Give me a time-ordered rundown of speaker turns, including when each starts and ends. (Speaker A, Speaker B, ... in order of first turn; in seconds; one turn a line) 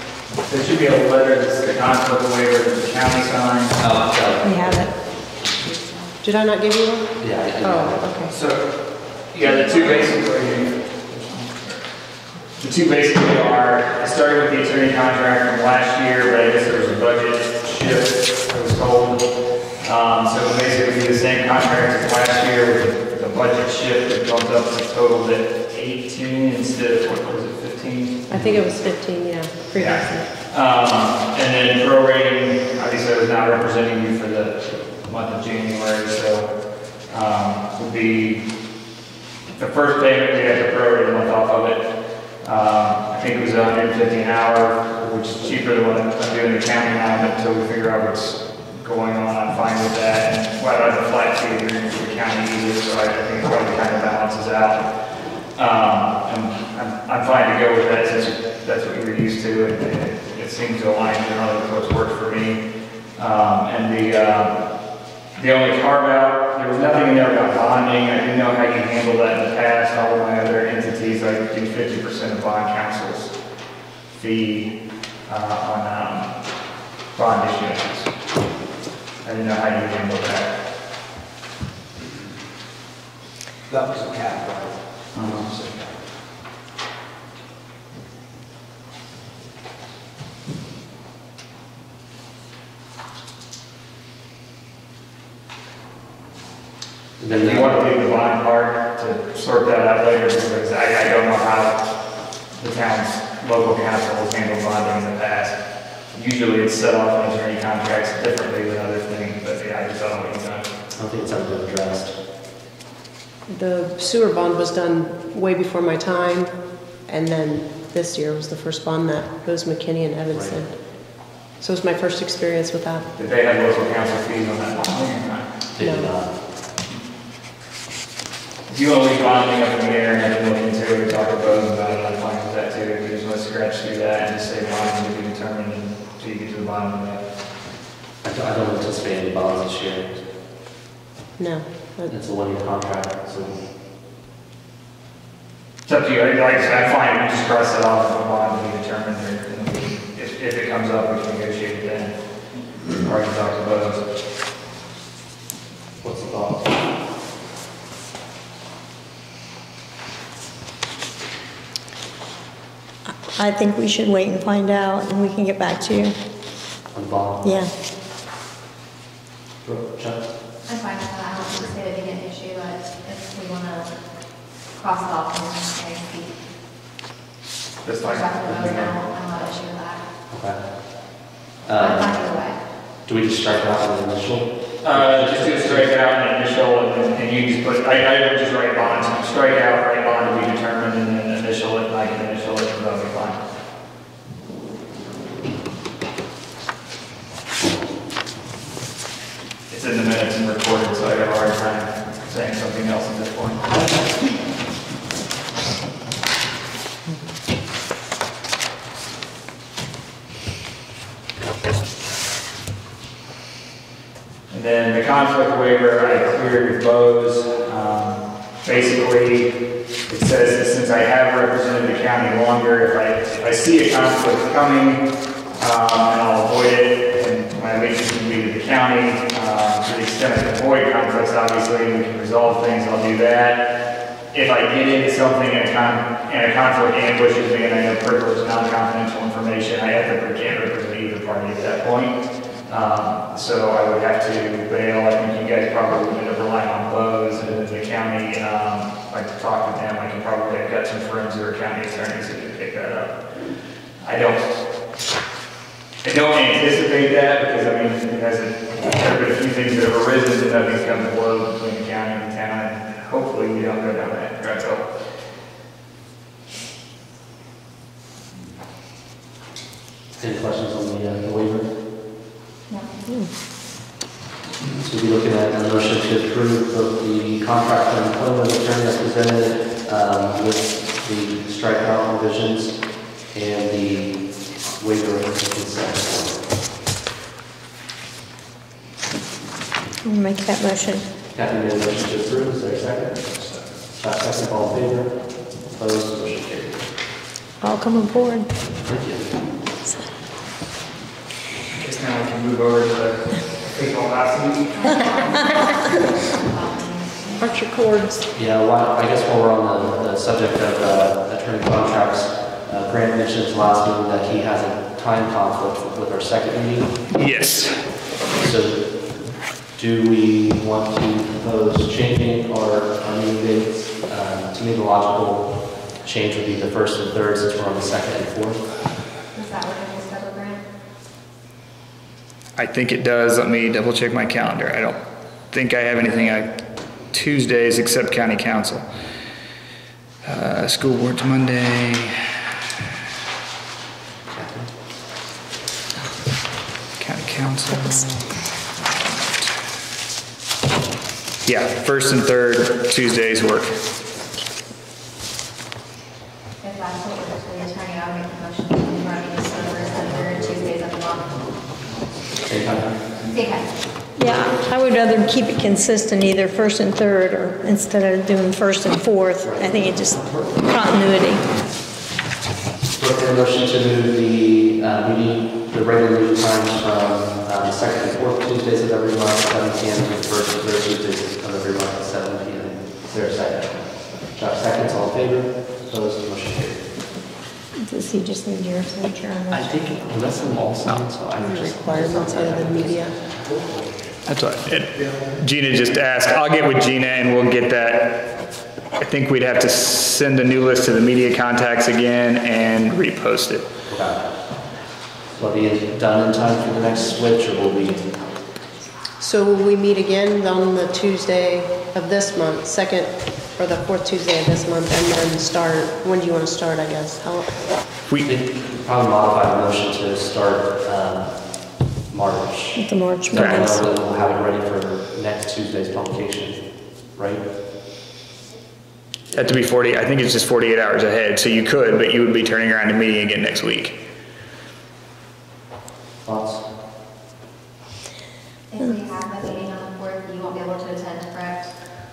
Speaker A: 0.5-3.8
Speaker B: 3.8-4.8
Speaker C: 4.4-4.9
Speaker D: 5.4-6.1
Speaker E: 6.2-8.3
Speaker B: 7.2-8.1
Speaker A: 8.3-11.8
Speaker D: 9.6-10.1
Speaker A: 12.6-19.2
Speaker A: 19.8-28.3
Speaker E: 28.3-30.3
Speaker B: 28.3-28.6
Speaker A: 29.7-36.5
Speaker A: 37.1-38.4
Speaker A: 39.5-41.9
Speaker A: 42.4-54.9
Speaker A: 55.5-62.6
Speaker A: 63.1-64.6
Speaker A: 65.3-73.3
Speaker A: 74.1-74.7
Speaker A: 75.2-76.3
Speaker A: 77.1-78.1
Speaker A: 79.2-80.5
Speaker F: 82.0-82.3
Speaker F: 83.7-86.1
Speaker A: 85.1-85.5
Speaker B: 97.2-97.8
Speaker A: 97.3-101.8
Speaker A: 102.5-105.6
Speaker A: 106.1-110.7
Speaker B: 111.0-112.1
Speaker E: 113.5-123.0
Speaker B: 120.3-120.6
Speaker A: 123.2-125.5
Speaker B: 125.7-126.3
Speaker E: 125.8-126.1
Speaker A: 128.7-137.2
Speaker B: 138.2-140.2
Speaker E: 141.4-142.1
Speaker B: 142.1-143.6
Speaker A: 145.8-152.1
Speaker A: 153.0-154.0
Speaker B: 156.0-156.6
Speaker C: 163.3-166.1
Speaker B: 166.9-167.7
Speaker C: 167.4-167.7
Speaker B: 169.6-170.2
Speaker D: 170.6-176.4
Speaker A: 177.8-178.9
Speaker D: 178.0-180.1
Speaker B: 180.3-182.2
Speaker D: 181.8-182.6
Speaker B: 183.0-185.9
Speaker A: 184.8-193.4
Speaker A: 199.7-203.9
Speaker A: 214.5-225.0
Speaker A: 225.6-233.7
Speaker A: 234.3-253.2
Speaker A: 254.0-254.6
Speaker A: 256.0-264.9
Speaker B: 270.2-271.7
Speaker B: 274.8-286.4
Speaker C: 290.0-291.0
Speaker B: 291.3-293.2
Speaker F: 293.3-293.7
Speaker B: 293.9-296.8
Speaker C: 297.6-298.5
Speaker B: 298.8-299.4
Speaker A: 301.7-305.2
Speaker D: 304.8-307.5
Speaker E: 307.4-308.2
Speaker B: 308.3-317.1
Speaker A: 317.1-317.9
Speaker B: 318.4-328.6
Speaker D: 329.3-330.6
Speaker A: 332.6-335.0
Speaker A: 335.5-336.5
Speaker A: 337.1-338.9
Speaker A: 340.2-342.4
Speaker B: 344.3-344.7
Speaker A: 347.0-348.4
Speaker A: 351.4-353.8
Speaker D: 356.6-361.5
Speaker F: 359.9-360.5
Speaker B: 362.4-363.1
Speaker D: 363.3-363.8
Speaker C: 364.1-371.5
Speaker B: 369.4-369.8
Speaker B: 373.0-386.8
Speaker C: 387.8-390.0
Speaker B: 389.5-393.5
Speaker E: 391.4-393.2
Speaker F: 393.2-394.1
Speaker A: 394.3-398.4
Speaker F: 394.9-395.3
Speaker A: 399.0-403.6
Speaker B: 403.9-404.6
Speaker B: 405.3-408.1
Speaker E: 409.2-417.6
Speaker B: 418.2-427.4
Speaker C: 422.8-423.8
Speaker A: 423.3-423.7
Speaker A: 429.3-434.0
Speaker B: 436.2-436.7
Speaker D: 438.7-441.7